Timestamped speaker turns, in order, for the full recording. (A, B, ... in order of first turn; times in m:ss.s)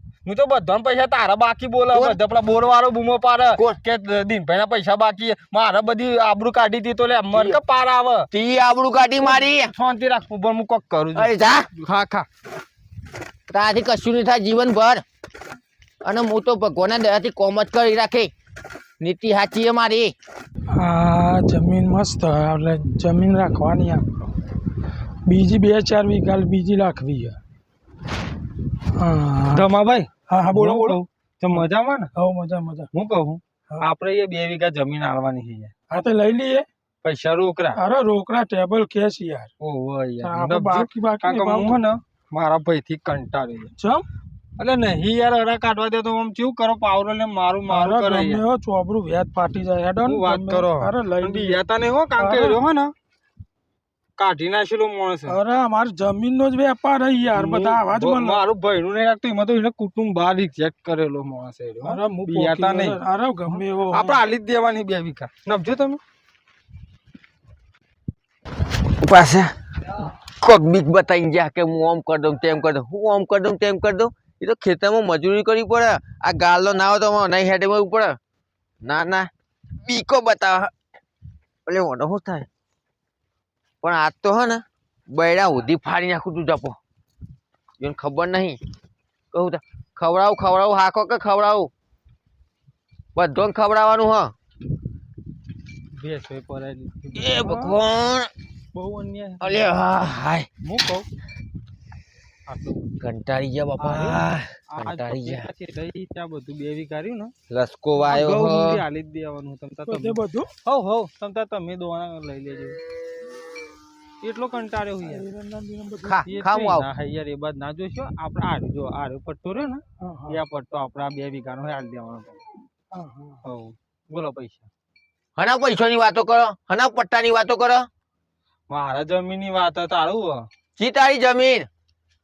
0:00.2-0:08.3 A
0:01.9-0:02.2 B
0:07.3-0:07.6 B
0:08.3-0:09.7 B
0:09.2-0:12.2 A
0:11.1-0:11.6 B
0:13.5-0:15.0 B
0:16.0-0:18.3 B
0:19.0-0:20.1 B
0:20.7-0:24.1 C
0:25.2-0:27.4 C
0:28.9-0:29.6 C
0:29.5-0:32.1 A
0:30.3-0:31.0 C
0:32.2-0:32.9 C
0:32.9-0:35.7 A
0:35.9-0:36.6 C
0:37.0-0:37.8 A
0:37.8-0:39.5 C
0:39.6-0:43.7 A
0:40.2-0:41.8 C
0:43.8-0:44.0 C
0:44.6-0:48.4 A
0:47.7-0:51.6 C
0:50.0-0:52.9 A
0:52.2-0:52.6 C
0:54.2-0:55.4 A
0:55.3-0:58.4 C
0:57.3-1:06.0 A
1:01.8-1:04.2 C
1:09.0-1:09.5 B
1:10.4-1:18.2 B
1:18.8-1:19.3 B
1:19.8-1:20.7 B
1:21.6-1:22.5 B
1:23.8-1:26.8 B
1:27.8-1:28.6 B
1:29.3-1:31.7 B
1:33.1-1:34.3 B
1:36.0-1:37.8 A
1:37.2-1:38.3 B
1:38.7-1:39.7 A
1:39.4-1:40.5 B
1:40.6-1:41.1 A
1:42.5-1:42.9 A
1:43.0-1:45.5 B
1:43.8-1:47.3 A
1:47.5-1:48.8 B
1:48.0-1:52.8 A
1:49.9-1:50.5 C
1:54.2-1:55.2 A
1:55.1-1:56.2 C
1:56.0-1:56.9 B
1:56.2-2:02.4 A
2:00.0-2:00.4 C
2:02.9-2:03.4 C
2:03.4-2:04.7 A
2:05.4-2:07.8 B
2:08.7-2:10.5 A
2:10.8-2:11.7 B